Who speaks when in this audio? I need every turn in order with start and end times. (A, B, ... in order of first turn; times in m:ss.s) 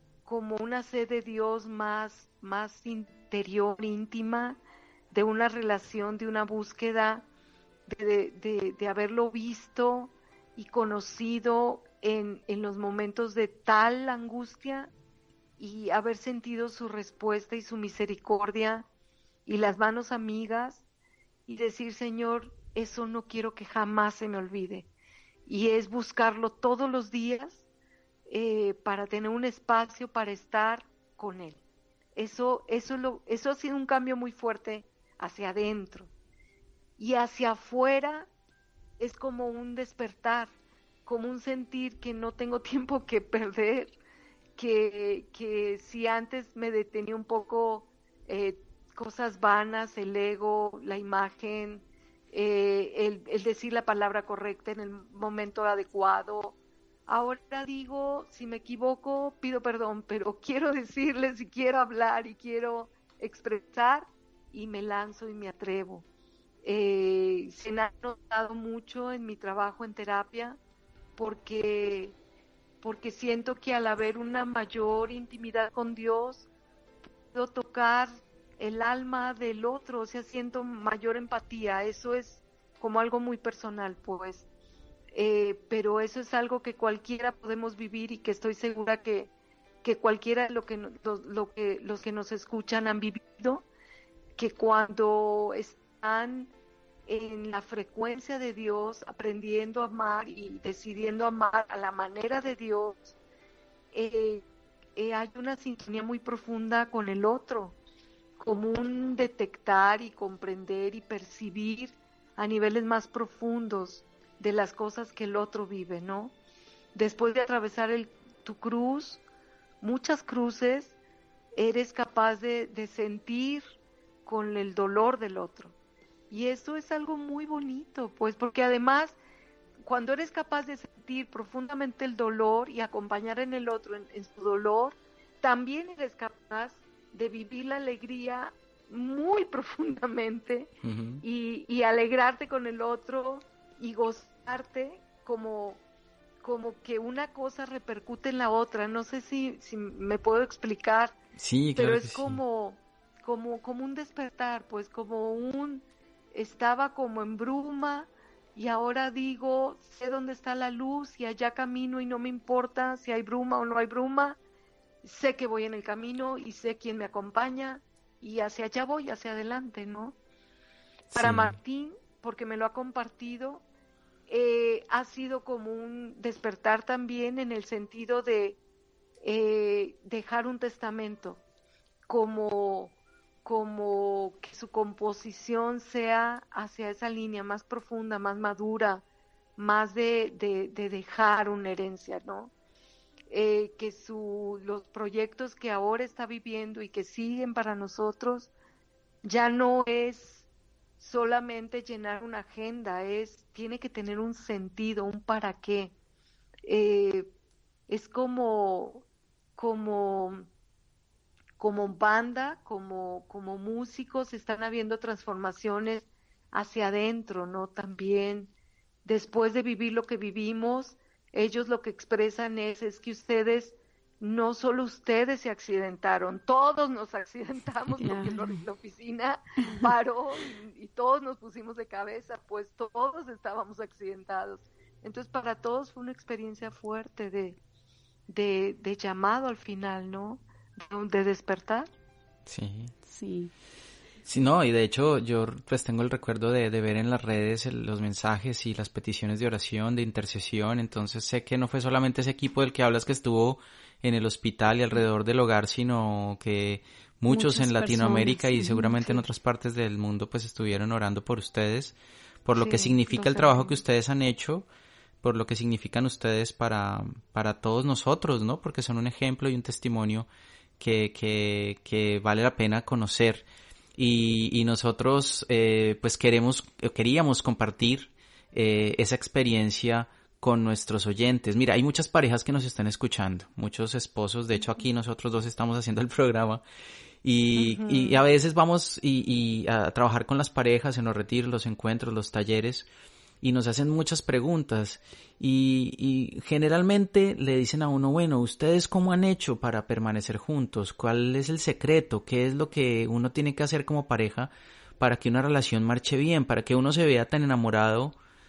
0:00.2-0:07.2 A
0:07.9-0:14.9 A
0:15.6-0:18.8 A
0:19.4-0:20.8 A
0:21.5-0:24.9 A
0:25.4-0:27.6 A
0:28.3-0:31.6 A
0:32.2-0:36.1 A
0:37.0-0:38.3 A
0:39.0-0:40.5 A
0:41.0-0:44.0 A
0:44.6-1:06.0 A
1:06.6-1:10.6 A
1:11.2-1:12.2 A
1:12.8-1:16.5 A
1:17.3-1:24.4 A
1:25.1-1:29.3 A
1:29.8-1:33.6 A
1:34.4-1:36.5 A
1:37.1-1:43.2 A
1:43.9-1:44.4 A
1:45.0-1:47.7 A
1:48.4-1:56.3 A
1:56.9-1:59.2 A
1:59.8-2:00.9 A
2:01.6-2:03.6 A
2:04.2-2:05.7 A
2:06.3-2:09.2 A
2:09.8-2:20.7 A
2:20.8-2:21.2 B
2:21.2-2:25.8 A
2:26.4-2:31.2 A
2:31.4-2:32.4 B
2:31.8-2:44.4 A
2:45.0-2:50.2 A
2:51.1-2:53.6 A
2:51.1-2:51.6 B
2:54.3-2:58.6 A
2:59.2-3:01.4 A
3:02.1-3:09.0 A
3:09.6-3:12.5 A
3:13.3-3:18.5 A
3:19.2-3:20.5 A
3:21.0-3:25.9 A
3:26.7-3:27.3 A
3:27.9-3:29.0 A
3:29.6-3:30.5 A
3:31.6-3:38.5 A
3:39.0-3:57.6 A
3:48.0-3:48.6 C
3:58.3-4:01.9 A
4:02.5-4:02.9 B
4:03.1-4:03.5 C
4:04.2-4:24.6 B
4:17.3-4:19.2 C
4:22.6-4:23.4 C
4:23.1-4:23.7 A
4:25.2-4:30.3 B
4:30.8-4:33.4 B
4:34.0-4:46.6 B
4:47.2-4:52.9 B
4:47.6-4:48.2 A
4:53.4-5:08.2 B